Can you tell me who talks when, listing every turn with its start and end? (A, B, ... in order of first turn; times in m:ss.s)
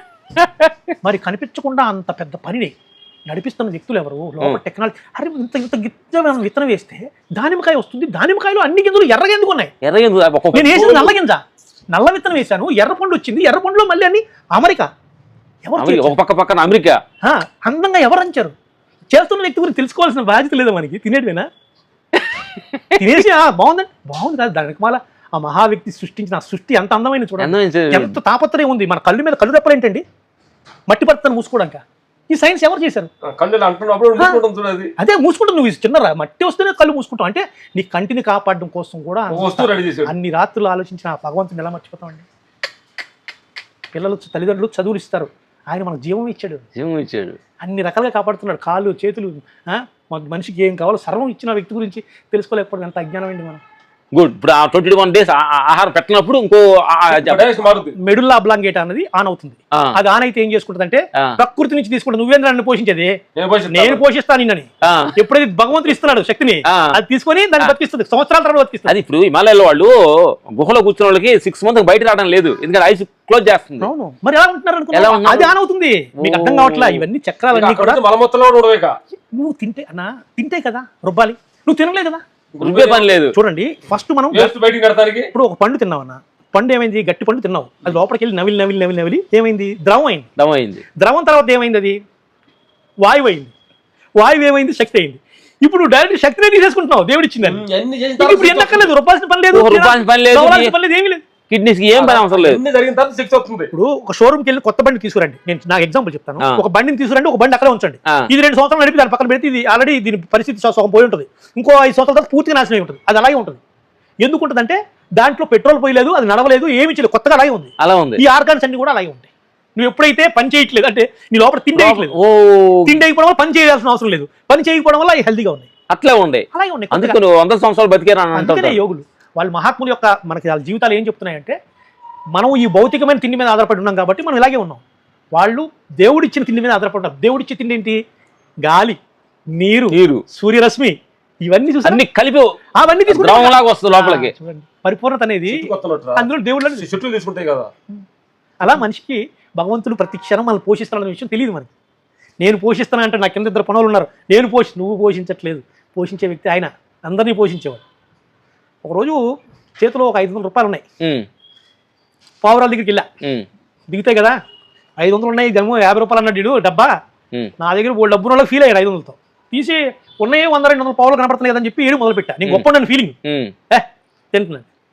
0:00.4-0:00.9 A
0:01.0-0:02.7 B
0:03.3-0:09.7 B
0:09.8-0:11.1 A
0:10.5-0:14.9 B
0:10.7-0:11.1 C
0:15.6-0:16.2 B
0:15.8-0:17.0 A
0:17.2-0:18.5 B
0:19.1-0:21.5 B
0:22.2-0:23.2 A
0:23.0-0:30.0 B
0:27.4-0:28.2 A
0:30.9-0:33.1 B
0:33.2-0:34.9 C
0:35.0-0:42.2 B
0:39.3-0:40.1 C
0:43.9-0:46.6 B
0:46.8-0:47.4 A
0:47.6-0:53.6 B
0:54.1-0:57.4 A
0:57.1-0:57.9 C
0:58.0-1:03.2 B
1:03.4-1:04.0 C
1:03.7-1:08.9 B
1:04.8-1:05.1 A
1:06.7-1:07.0 A
1:08.9-1:13.9 A
1:13.8-1:18.0 B
1:14.9-1:15.5 A
1:16.2-1:17.0 A
1:17.5-1:19.0 C
1:19.3-1:22.2 B
1:22.6-1:23.1 C
1:22.6-1:23.3 A
1:23.3-1:24.5 B
1:24.3-1:25.3 C
1:25.3-1:30.3 B
1:30.4-1:30.8 A
1:31.0-1:32.0 B
1:33.0-1:33.5 B
1:34.2-1:37.6 B
1:37.4-1:38.9 C
1:38.2-1:41.2 B
1:39.5-1:40.7 A
1:41.5-1:42.6 A
1:41.9-1:43.7 C
1:43.7-1:53.6 B
1:54.2-2:02.2 B
1:57.8-1:58.2 A
2:01.7-2:03.0 A
2:02.8-2:05.7 B
2:05.9-2:08.8 A
2:06.5-2:07.2 B
2:08.3-2:11.6 B
2:12.3-2:14.8 B
2:15.3-2:18.0 B
2:18.6-2:19.0 B
2:19.5-2:22.0 B
2:19.9-2:20.2 A
2:21.8-2:22.5 A
2:22.8-2:26.9 B
2:23.1-2:24.3 A
2:25.5-2:26.2 C
2:26.8-2:27.7 C
2:28.6-2:31.7 B
2:32.4-2:37.8 B
2:38.8-2:39.2 B
2:39.8-2:40.8 B
2:41.0-2:41.3 A
2:42.4-2:43.1 B
2:43.9-2:44.4 B
2:45.0-2:46.9 B
2:47.6-2:53.2 B
2:53.2-2:53.5 A
2:53.7-2:54.6 B